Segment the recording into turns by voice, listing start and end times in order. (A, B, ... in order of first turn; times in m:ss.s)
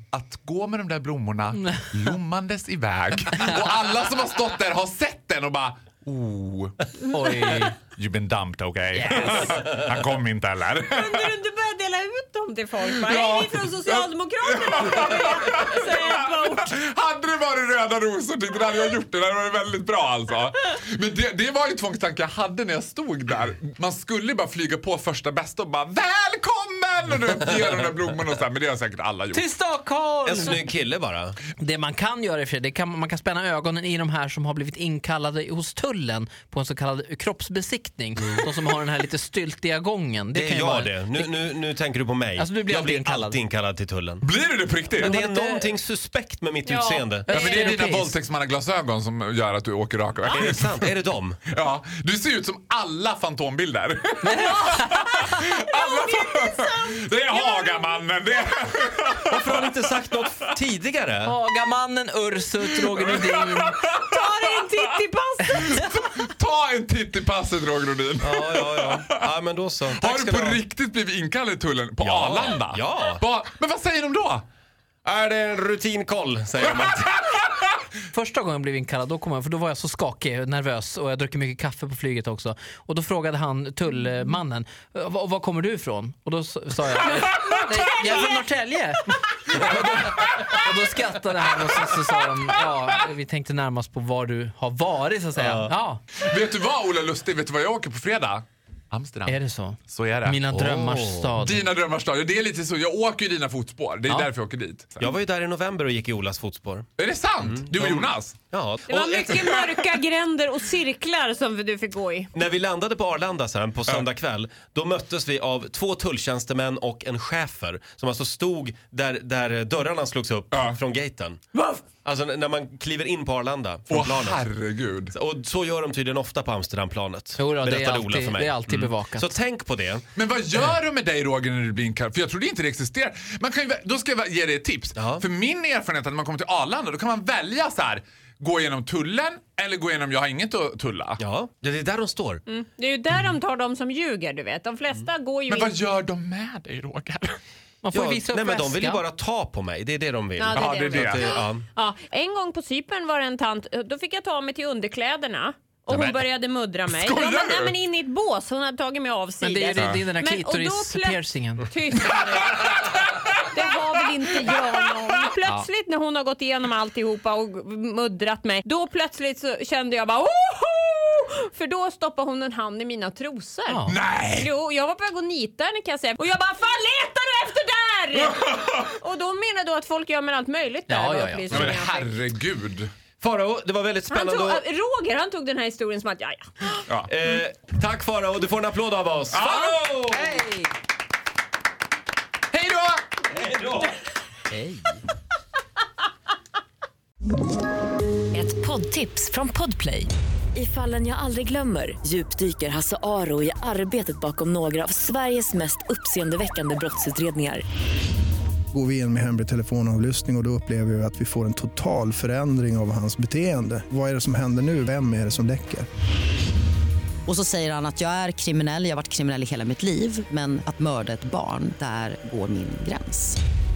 0:00.1-0:06.8 A
0:01.7-0:02.2 B
0:07.0-0:07.9 B
0:07.9-0:11.3 A
0:09.0-0:10.0 B
0:10.9-0:16.7 C
0:13.0-0:29.5 A
0:29.4-0:30.6 B
0:30.2-0:31.4 D
0:31.6-0:41.3 B
0:40.3-0:44.2 D
0:42.4-0:43.4 B
0:44.2-0:45.1 A
0:45.0-0:47.7 D
0:45.0-0:45.7 B
0:46.7-0:47.4 C
0:47.3-0:48.1 B
0:47.3-0:50.8 A
0:50.3-0:51.4 D
0:51.5-0:59.4 A
0:54.3-0:55.1 B
0:54.3-0:58.1 C
0:59.2-1:01.4 D
1:01.2-1:03.8 B
1:02.7-1:04.6 A
1:03.8-1:05.8 C
1:05.6-1:09.1 A
1:08.2-1:10.6 D
1:09.9-1:14.4 A
1:12.0-1:13.2 D
1:15.0-1:17.2 D
1:18.1-1:36.0 B
1:35.4-1:35.7 D
1:36.2-1:40.5 A
1:39.1-1:41.7 B
1:40.5-1:41.3 D
1:41.4-1:44.9 A
1:45.0-1:46.9 D
1:47.0-1:48.3 A
1:47.4-1:49.4 D
1:47.9-1:48.3 B
1:48.9-1:52.3 C
1:52.3-2:01.4 D
2:00.5-2:00.8 A
2:02.0-2:04.4 D
2:03.9-2:05.2 A
2:05.1-2:10.0 D
2:07.4-2:09.3 B
2:10.2-2:21.2 A
2:15.0-2:15.2 D
2:21.2-2:22.4 D
2:22.5-2:25.8 C
2:25.5-2:27.4 A
2:27.8-2:29.0 B
2:27.9-2:31.6 D
2:30.4-3:02.1 C
2:30.5-2:31.2 A
2:37.0-2:37.4 A
2:39.4-2:41.6 B
2:42.6-2:43.4 B
2:53.7-2:54.5 B
3:00.9-3:02.9 B
3:03.2-3:04.6 D
3:04.1-3:06.8 C
3:07.1-3:10.4 D
3:09.3-3:10.5 B
3:12.5-3:13.1 B
3:13.3-3:13.9 D
3:18.3-3:27.6 E
3:28.7-3:35.9 F
3:37.3-3:43.4 G